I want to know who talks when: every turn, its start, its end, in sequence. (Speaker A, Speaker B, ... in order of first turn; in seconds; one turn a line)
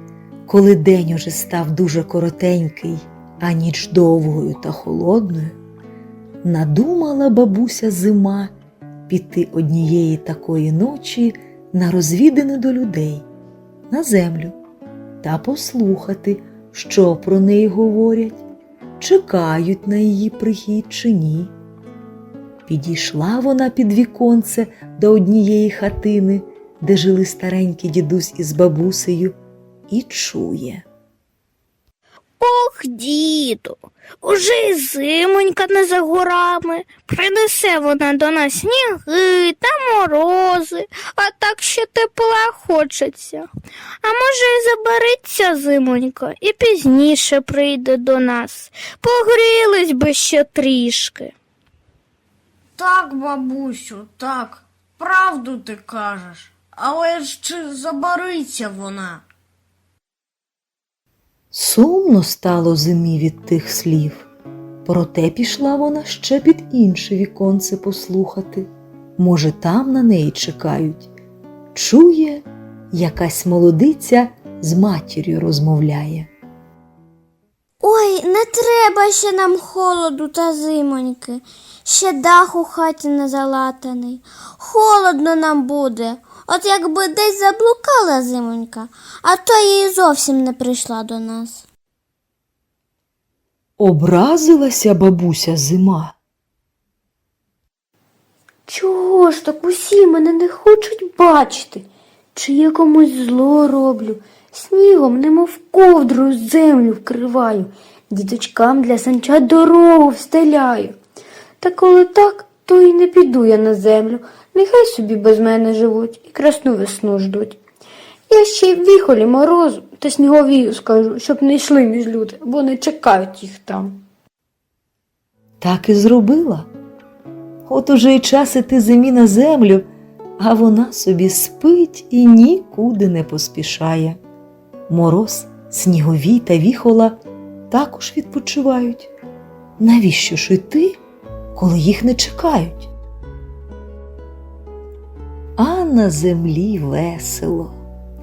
Speaker A: 0.5-5.6
Speaker A: 6.4-8.5
Speaker A: 9.1-13.2
Speaker A: 13.9-14.6
Speaker A: 15.2-18.4
Speaker A: 19.0-21.5
Speaker A: 22.7-29.4
Speaker A: 29.9-30.9
Speaker B: 32.4-43.5
Speaker B: 44.0-51.3
Speaker C: 52.8-59.2
Speaker A: 61.5-64.3
Speaker A: 64.8-71.1
Speaker A: 71.7-76.3
Speaker D: 77.8-91.6
Speaker A: 93.8-96.2
Speaker E: 98.7-111.0
Speaker E: 111.6-117.6
Speaker E: 118.3-124.0
Speaker A: 125.6-126.7
Speaker A: 127.7-129.9
Speaker A: 130.4-134.2
Speaker A: 134.9-137.2
Speaker A: 137.7-139.1
Speaker A: 139.8-141.0
Speaker A: 141.6-142.9
Speaker A: 145.6-147.8